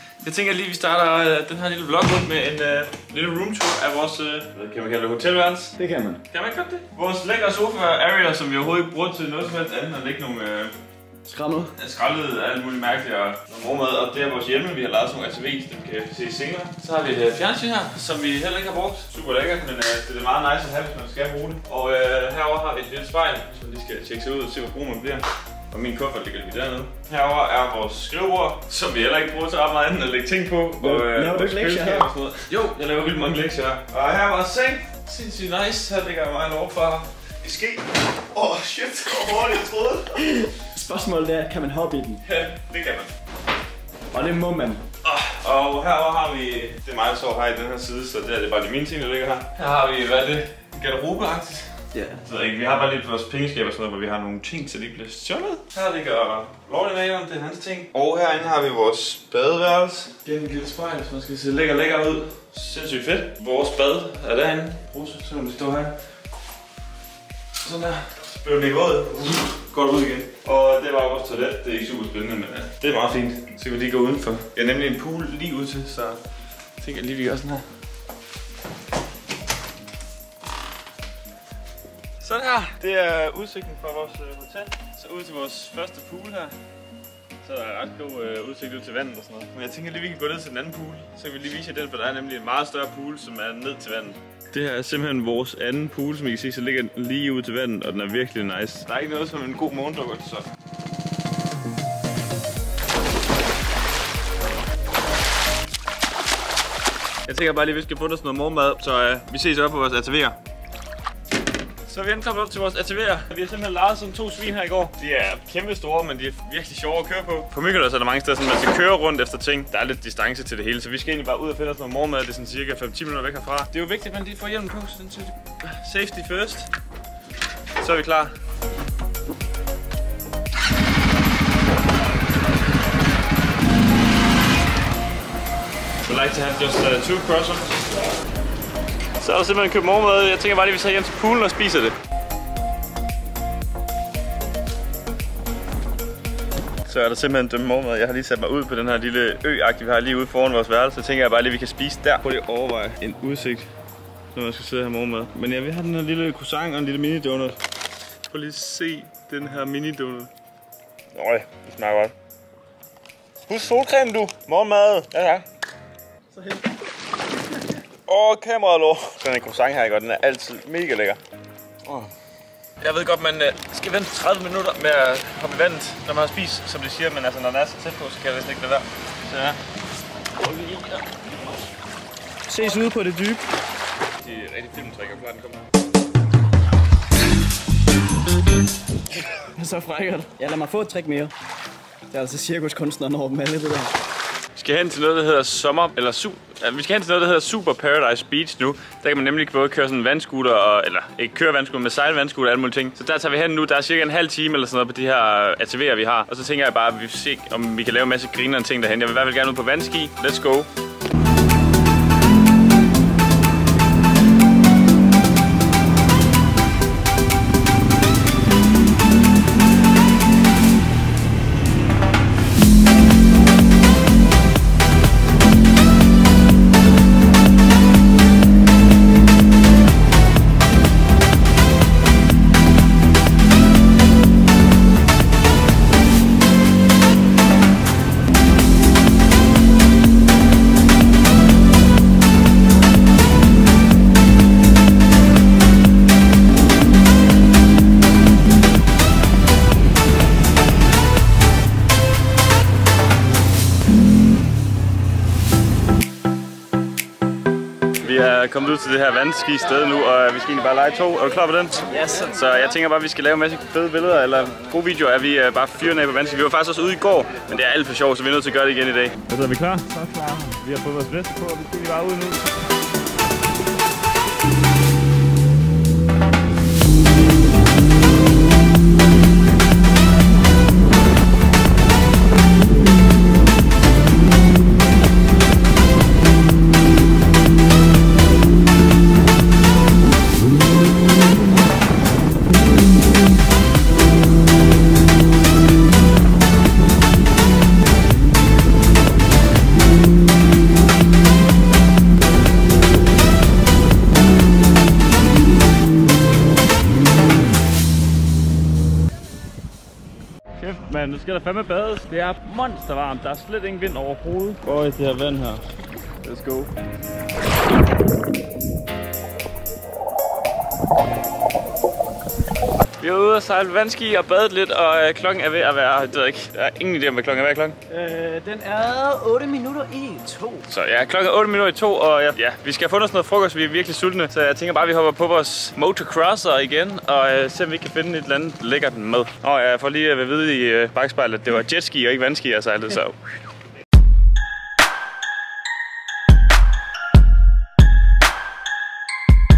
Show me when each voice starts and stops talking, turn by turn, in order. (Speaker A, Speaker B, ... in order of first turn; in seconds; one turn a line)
Speaker A: 0.2-5.7
Speaker B: 5.8-6.2
Speaker A: 6.2-10.7
Speaker B: 11.2-11.7
Speaker A: 11.7-40.4
Speaker B: 30.8-32.1
Speaker B: 40.1-42.2
Speaker A: 42.2-43.1
Speaker B: 44.1-44.8
Speaker A: 45.0-66.0
Speaker B: 51.9-52.2
Speaker A: 67.6-76.2
Speaker A: 76.8-77.7
Speaker A: 82.2-86.5
Speaker A: 87.4-100.5
Speaker A: 107.2-110.4
Speaker A: 111.8-126.7
Speaker A: 127.8-128.3
Speaker A: 136.0-137.7
Speaker A: 139.2-142.0
Speaker A: 146.8-153.7
Speaker A: 154.3-157.6
Speaker A: 158.3-160.3
Speaker A: 161.1-162.1
Speaker A: 163.4-165.4
Speaker A: 168.1-171.2
Speaker A: 171.8-172.1
Speaker A: 172.8-179.6
Speaker A: 180.4-181.0
Speaker B: 182.5-183.4
Speaker A: 184.2-185.6
Speaker B: 189.4-191.3
Speaker B: 192.1-193.9
Speaker A: 194.5-210.7
Speaker A: 258.0-272.5
Speaker B: 261.9-262.3
Speaker A: 310.6-315.7
Speaker A: 316.2-316.7
Speaker A: 323.0-327.8
Speaker B: 327.9-330.6
Speaker A: 330.7-343.2